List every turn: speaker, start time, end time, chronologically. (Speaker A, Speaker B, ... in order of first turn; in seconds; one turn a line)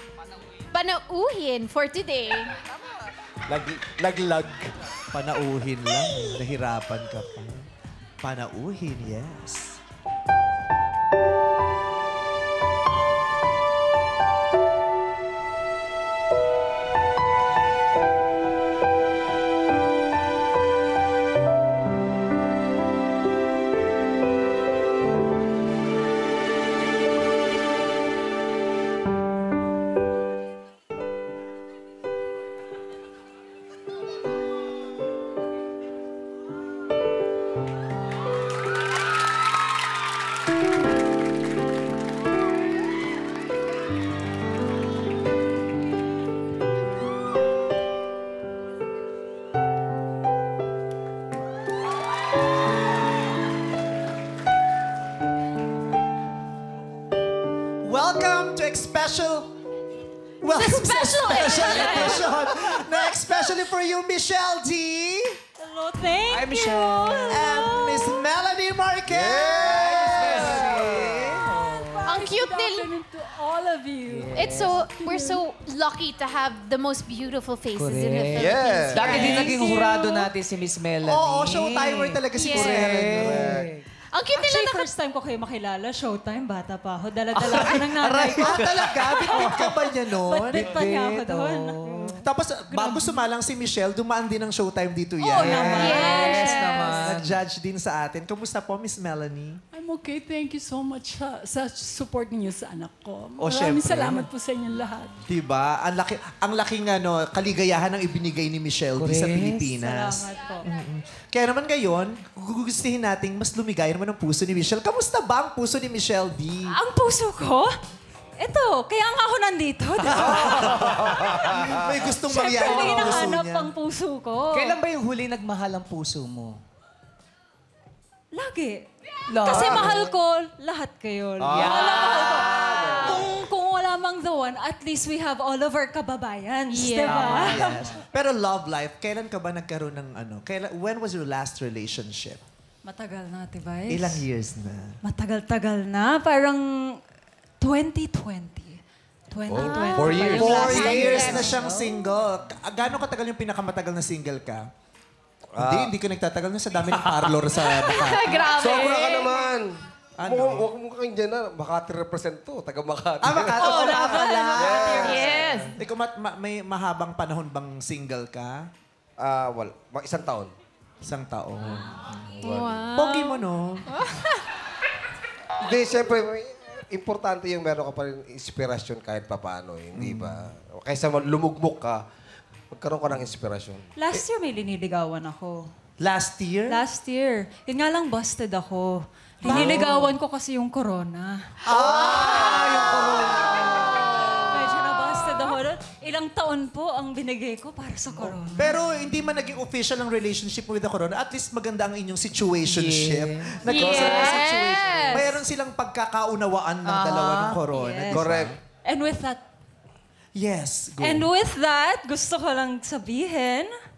Speaker A: 0.7-2.5
Speaker B: 3.5-4.7
Speaker C: 5.1-7.6
Speaker C: 8.2-9.8
Speaker C: 57.8-59.5
Speaker C: 60.4-65.4
Speaker A: 60.6-62.4
Speaker D: 61.2-62.2
Speaker D: 65.6-68.2
Speaker E: 66.3-67.3
Speaker C: 67.3-71.5
Speaker B: 69.1-70.0
Speaker E: 69.6-72.0
Speaker F: 70.0-70.8
Speaker B: 70.7-71.1
Speaker F: 71.3-75.4
Speaker A: 72.0-72.9
Speaker E: 74.1-74.8
Speaker A: 74.3-79.8
Speaker E: 77.7-83.8
Speaker B: 78.3-79.2
Speaker D: 79.0-80.3
Speaker C: 81.0-83.4
Speaker A: 82.3-83.0
Speaker B: 83.0-83.7
Speaker A: 84.1-84.8
Speaker D: 84.3-92.2
Speaker C: 87.4-90.9
Speaker E: 88.3-89.5
Speaker E: 90.5-92.2
Speaker C: 92.0-96.0
Speaker D: 92.7-93.2
Speaker D: 95.2-96.9
Speaker E: 95.4-97.4
Speaker A: 95.7-97.0
Speaker C: 96.9-99.6
Speaker F: 99.7-105.2
Speaker C: 103.4-104.3
Speaker C: 105.3-116.8
Speaker E: 109.0-109.7
Speaker D: 109.8-110.7
Speaker D: 116.7-117.7
Speaker D: 118.4-120.9
Speaker C: 120.0-123.7
Speaker B: 120.6-121.8
Speaker D: 122.3-124.8
Speaker E: 122.5-123.3
Speaker E: 124.5-126.6
Speaker D: 128.3-137.6
Speaker F: 129.3-130.1
Speaker B: 129.6-129.9
Speaker B: 131.4-133.2
Speaker E: 131.5-133.2
Speaker A: 136.7-137.6
Speaker E: 137.0-138.0
Speaker C: 137.3-142.4
Speaker D: 142.8-144.2
Speaker C: 143.9-145.0
Speaker D: 145.0-147.0
Speaker D: 147.6-148.8
Speaker D: 149.3-151.5
Speaker B: 149.5-151.1
Speaker A: 149.6-151.6
Speaker E: 150.2-152.0
Speaker C: 150.2-154.7
Speaker B: 155.5-155.9
Speaker C: 155.6-158.5
Speaker A: 157.5-159.5
Speaker B: 158.5-164.0
Speaker C: 160.2-160.7
Speaker C: 163.2-168.7
Speaker D: 163.6-165.1
Speaker B: 164.6-165.7
Speaker A: 164.9-165.7
Speaker B: 169.2-170.5
Speaker C: 171.0-172.4
Speaker A: 172.4-174.4
Speaker B: 172.4-172.8
Speaker C: 172.9-174.0
Speaker B: 175.6-182.0
Speaker C: 179.9-180.5
Speaker B: 182.7-183.8
Speaker D: 183.9-185.7
Speaker C: 186.0-186.8
Speaker D: 186.7-191.5
Speaker C: 189.4-190.0
Speaker E: 189.4-190.1
Speaker C: 191.6-192.6
Speaker E: 191.7-194.1
Speaker A: 192.2-192.9
Speaker A: 193.8-194.3
Speaker D: 194.2-198.7
Speaker C: 198.1-208.6
Speaker E: 202.6-203.7
Speaker D: 203.7-205.2
Speaker A: 203.7-205.3
Speaker E: 206.8-207.6
Speaker D: 207.7-208.3
Speaker B: 208.1-208.6
Speaker D: 208.8-209.4
Speaker C: 210.3-211.3
Speaker D: 211.0-213.7